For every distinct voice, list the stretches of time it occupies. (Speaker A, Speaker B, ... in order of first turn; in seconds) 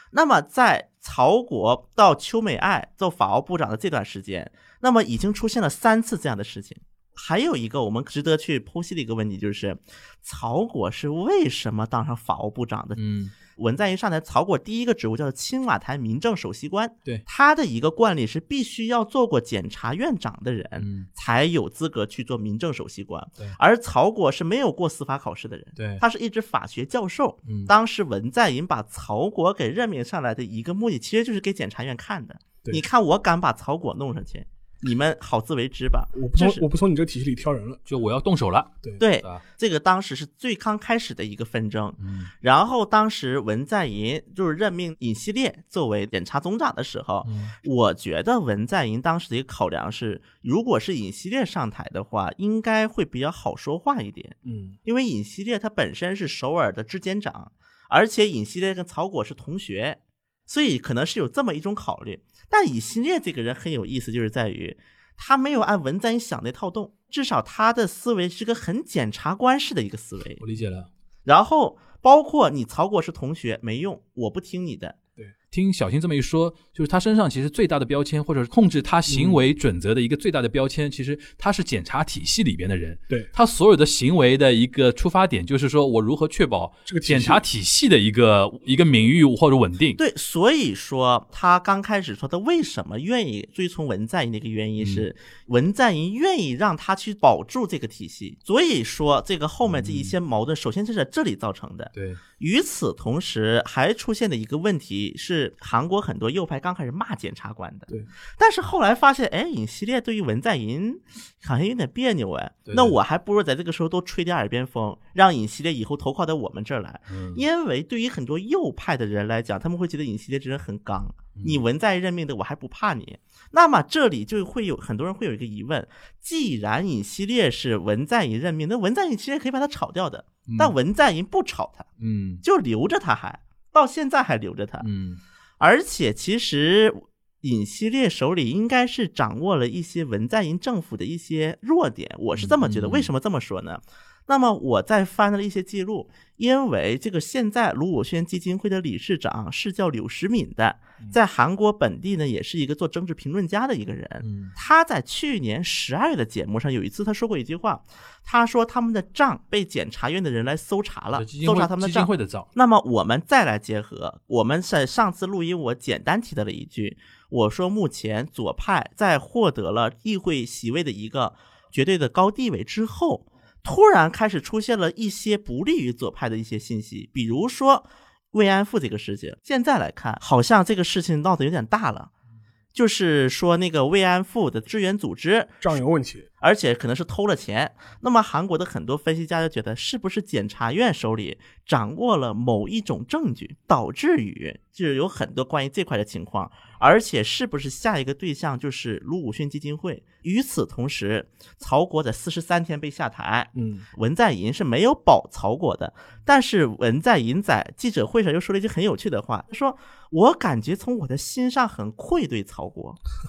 Speaker A: 0.1-36.6, 39.0-70.4, 71.2-75.0, 90.0-131.9, 132.4-134.9, 135.6-182.1, 182.7-185.6, 186.4-213.0
Speaker B: 12.9-13.3, 20.8-21.1, 25.8-26.0, 37.9-39.4, 42.0-42.3, 47.2-47.5, 70.4-70.9, 75.5-90.0, 94.8-95.1, 99.7-100.1, 101.9-102.2, 112.7-112.9, 117.1-117.4, 130.4-130.7, 132.0-132.4, 134.8-135.2, 142.4-143.1, 154.2-154.5, 161.1-162.5
Speaker C: 36.1-37.8, 54.4-54.8, 79.1-79.4, 86.9-87.4, 185.6-186.3, 203.5-203.8